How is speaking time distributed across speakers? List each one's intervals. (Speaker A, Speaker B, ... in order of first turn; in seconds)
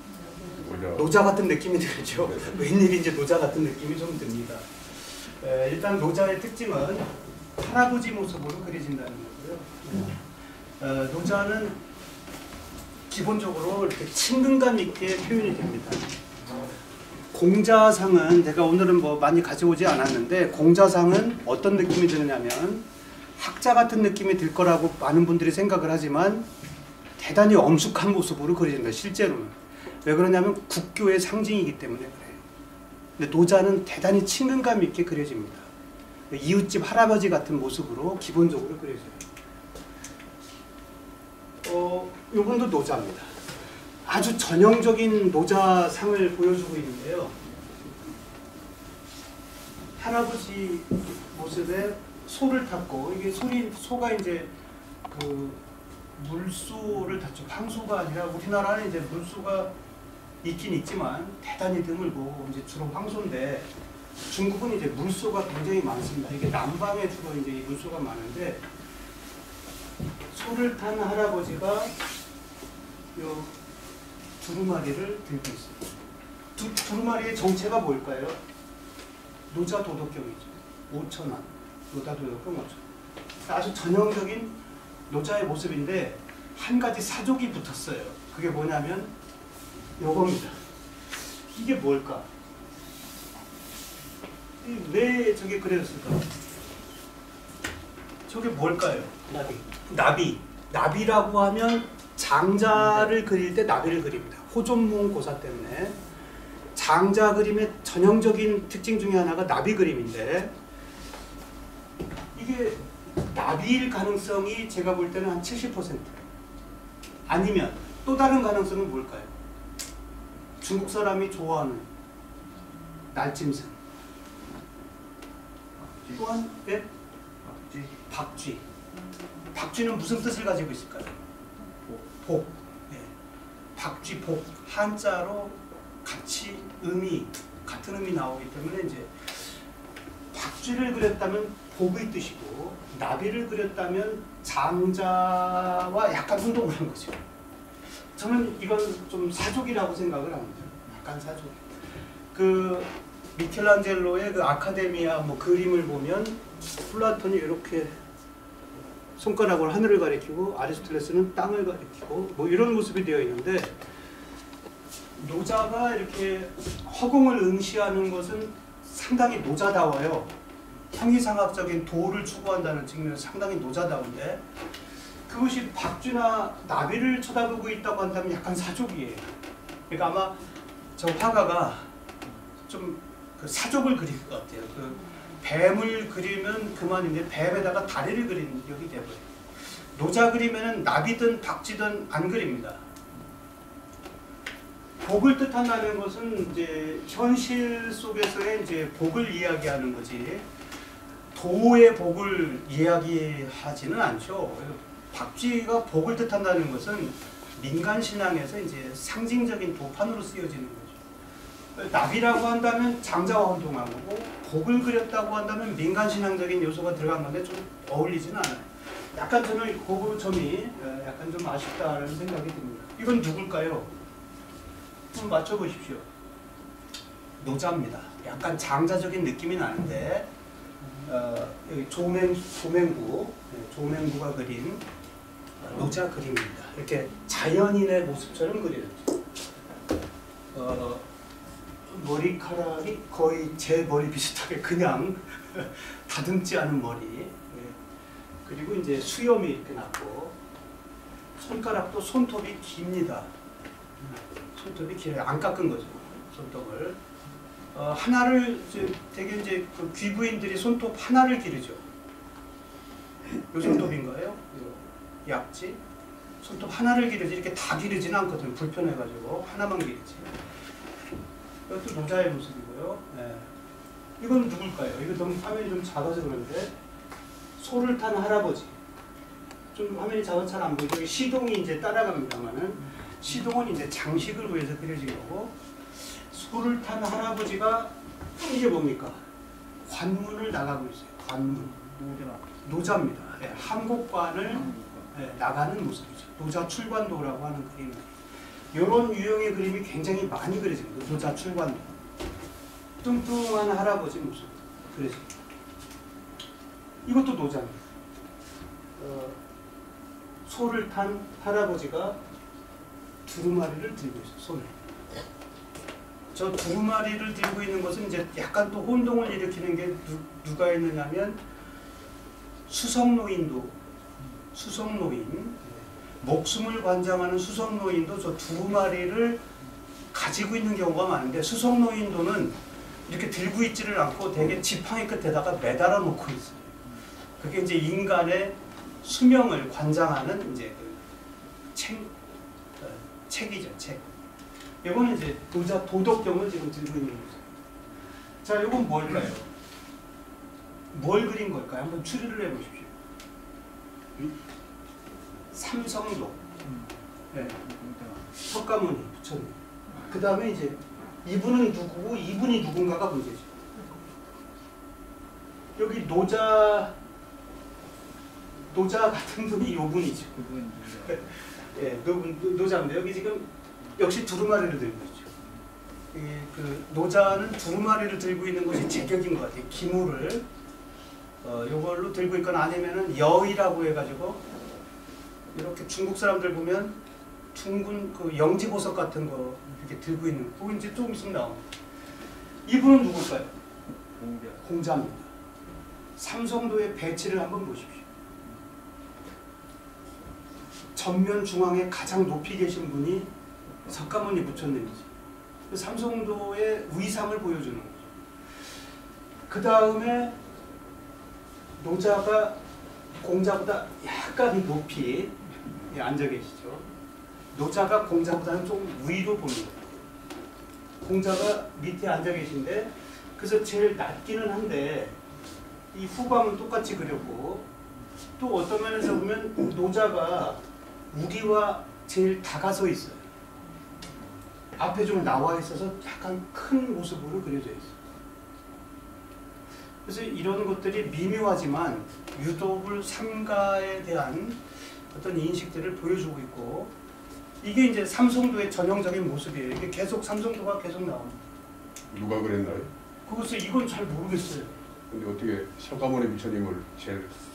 Speaker A: 0.4-1.1, 452.1-452.9, 455.1-457.4
Speaker B: 0.9-10.2, 10.8-11.8, 13.1-16.1, 17.3-22.9, 23.4-26.5, 27.2-32.4, 33.2-35.7, 36.3-39.2, 41.6-43.4, 44.0-47.4, 50.0-54.5, 55.1-55.6, 56.1-59.7, 60.4-63.7, 64.3-68.6, 70.3-71.9, 73.1-73.5, 74.4-75.8, 76.5-78.4, 79.5-82.8, 83.5-84.5, 85.1-89.1, 90.0-90.6, 91.5-92.3, 94.6-96.3, 98.3-106.0, 106.7-110.5, 112.3-116.2, 117.2-119.3, 120.6-121.9, 123.1-123.8, 126.1-126.9, 127.9-128.6, 129.5-131.2, 132.0-133.1, 133.8-139.6, 140.3-147.2, 148.2-151.6, 152.3-157.9, 159.2-163.7, 165.2-170.3, 170.9-174.4, 175.3-179.2, 179.9-180.4, 181.0-181.9, 182.7-189.2, 189.9-192.8, 195.0-200.5, 201.3-211.0, 211.7-223.9, 225.1-226.1, 227.4-230.3, 231.0-234.8, 235.6-239.1, 240.5-241.1, 241.9-247.8, 248.4-250.3, 251.4-253.3, 254.5-257.0, 257.7-261.8, 263.5-265.8, 266.4-270.3, 271.7-273.5, 274.2-276.7, 277.6-278.8, 279.7-289.2, 289.9-291.8, 292.6-298.1, 298.7-301.9, 303.0-305.3, 307.0-307.8, 309.0-309.4, 310.4-312.2, 313.2-314.7, 316.3-321.4, 322.7-323.8, 324.5-329.4, 330.1-336.7, 337.4-341.0, 341.7-342.1, 342.8-344.0, 344.8-347.4, 348.4-349.5, 350.9-352.9, 355.5-356.4, 357.3-357.6, 358.4-363.5, 365.8-366.9, 368.7-370.4, 371.1-375.3, 376.1-380.4, 381.4-384.4, 385.5-387.0, 387.5-391.6, 392.6-393.5, 394.6-395.3, 396.2-398.0, 400.9-403.3, 403.9-405.1, 405.7-408.1, 409.5-410.4, 411.8-412.6, 413.2-416.9, 417.5-419.9, 421.0-425.2, 425.9-427.6, 428.4-433.2, 434.8-438.0, 440.1-444.6, 445.1-446.9, 447.6-451.4, 453.2-454.8
Speaker C: 125.9-126.2, 127.4-127.9, 291.7-292.5, 294.7-295.0, 356.6-356.9, 357.4-358.2, 370.4-371.2, 394.2-394.5